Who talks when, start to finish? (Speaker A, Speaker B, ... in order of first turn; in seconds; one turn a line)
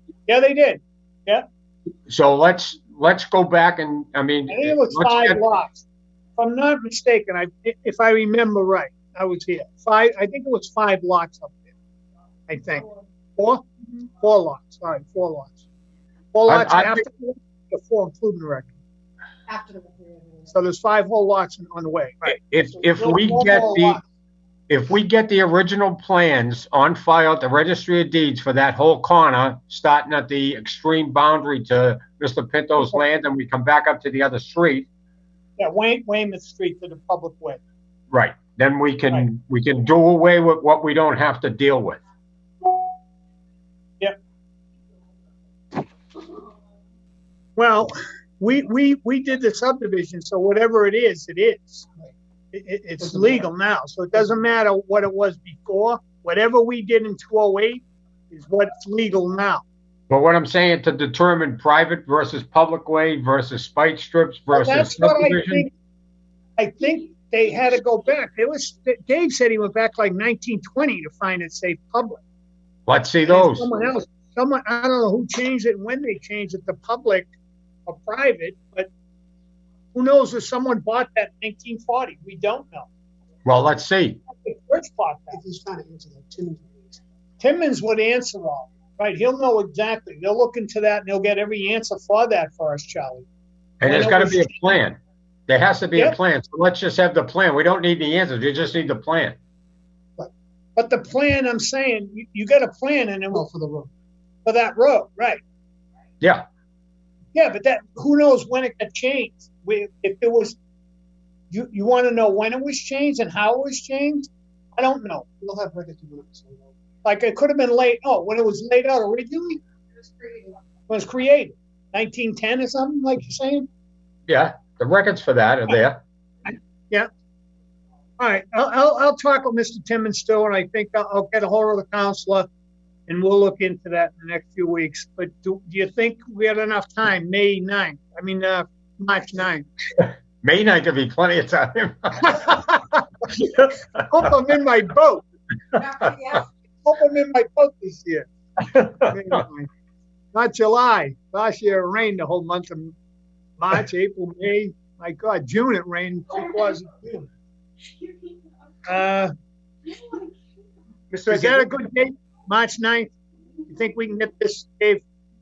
Speaker A: 0.3-1.5
Speaker B: 2.1-5.4
Speaker A: 4.5-5.8
Speaker A: 6.4-11.6
Speaker A: 12.5-15.6
Speaker A: 16.3-18.8
Speaker B: 16.5-17.1
Speaker C: 19.5-19.9
Speaker A: 20.5-24.0
Speaker B: 22.3-24.0
Speaker B: 24.7-34.9
Speaker A: 35.6-37.6
Speaker B: 38.1-42.0
Speaker A: 47.6-51.9
Speaker A: 52.5-59.6
Speaker B: 60.1-65.7
Speaker A: 64.5-65.7
Speaker A: 66.6-72.2
Speaker B: 72.9-73.7
Speaker A: 73.2-77.3
Speaker A: 77.9-78.9
Speaker A: 79.9-82.9
Speaker B: 83.5-84.2
Speaker A: 84.3-85.4
Speaker C: 85.6-86.7
Speaker A: 87.4-93.3
Speaker B: 93.8-99.4
Speaker A: 93.8-94.7
Speaker A: 96.0-96.2
Speaker A: 100.2-103.9
Speaker A: 104.4-105.4
Speaker B: 106.2-106.5
Speaker A: 107.3-110.6
Speaker A: 111.5-115.9
Speaker C: 115.6-116.6
Speaker A: 117.0-119.6
Speaker A: 120.9-123.7
Speaker B: 124.3-126.0
Speaker A: 128.2-132.5
Speaker A: 133.1-139.7
Speaker B: 140.0-142.6
Speaker A: 142.4-145.2
Speaker A: 146.8-149.7
Speaker A: 150.3-152.9
Speaker A: 153.6-157.3
Speaker A: 158.9-159.3
Speaker A: 161.2-163.1
Speaker A: 163.7-165.0